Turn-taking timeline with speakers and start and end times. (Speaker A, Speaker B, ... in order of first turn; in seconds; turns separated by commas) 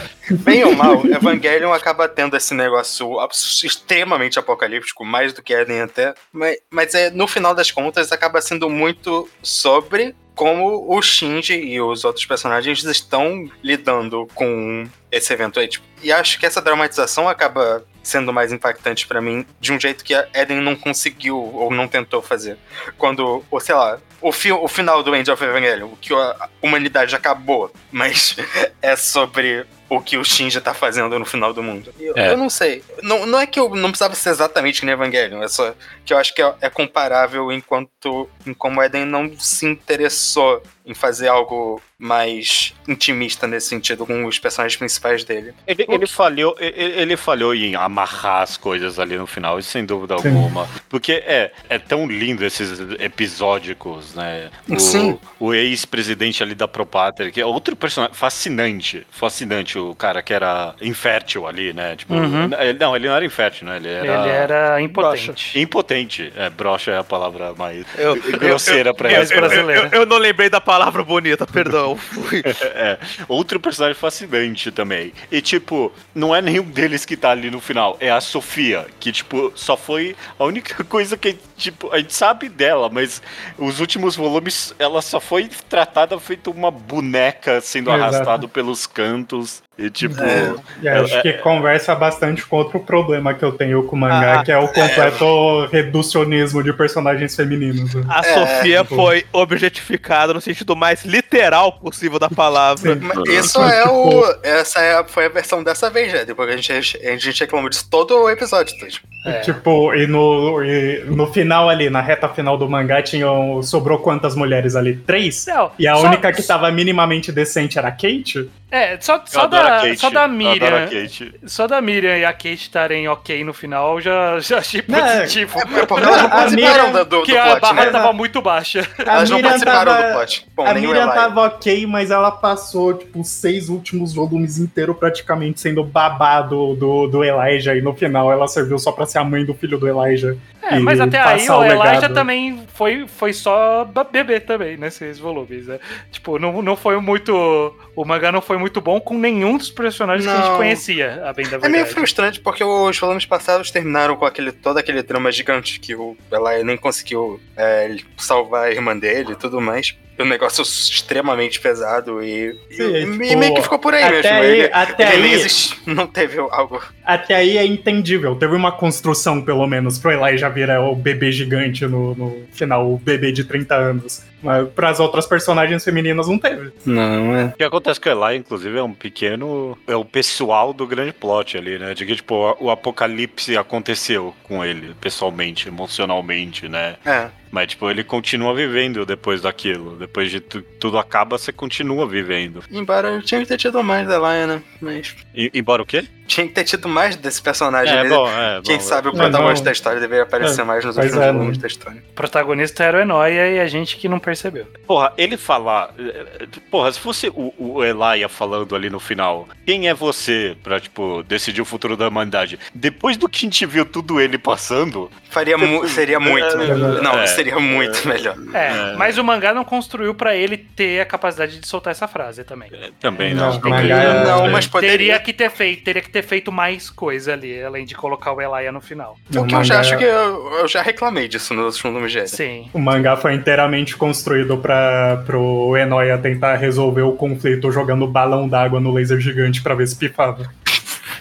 Speaker A: 0.4-46.1, Speaker B: 45.7-64.5, Speaker C: 50.2-50.5, Speaker A: 54.7-55.2, Speaker D: 62.1-62.5, Speaker D: 64.0-65.6, Speaker E: 64.9-65.4, Speaker B: 65.5-69.7, Speaker E: 67.9-72.5, Speaker D: 69.0-69.9, Speaker B: 72.5-91.4, Speaker C: 87.9-88.4, Speaker C: 90.0-98.1, Speaker A: 90.2-90.6, Speaker E: 94.1-94.5, Speaker A: 94.7-95.2, Speaker E: 98.1-103.2, Speaker A: 98.2-98.8, Speaker C: 102.8-104.3, Speaker A: 103.0-109.1, Speaker B: 103.1-103.5, Speaker D: 109.2-109.6, Speaker C: 109.2-118.5, Speaker D: 115.4-116.5, Speaker D: 118.7-129.6, Speaker B: 119.3-121.3, Speaker C: 124.9-125.4, Speaker A: 125.6-128.0, Speaker C: 126.0-127.1, Speaker C: 127.7-128.1, Speaker C: 129.1-142.3, Speaker A: 129.1-131.3, Speaker D: 140.6-152.1, Speaker A: 150.2-150.8, Speaker A: 151.6-166.9, Speaker C: 162.8-165.5, Speaker C: 167.0-176.7, Speaker A: 176.9-177.5, Speaker B: 177.6-192.6, Speaker A: 187.1-187.3, Speaker A: 192.7-195.2, Speaker B: 195.3-196.1, Speaker A: 196.3-202.0, Speaker B: 197.8-199.6, Speaker C: 199.1-199.7, Speaker C: 200.4-201.6, Speaker D: 202.2-204.7, Speaker B: 204.9-219.2, Speaker A: 215.3-218.4, Speaker C: 216.6-217.0, Speaker D: 218.5-222.7, Speaker B: 222.7-224.7, Speaker C: 223.2-224.7, Speaker A: 223.6-225.2, Speaker D: 224.8-229.2, Speaker C: 229.3-230.0, Speaker A: 229.3-232.4, Speaker D: 232.3-232.7, Speaker C: 232.7-240.5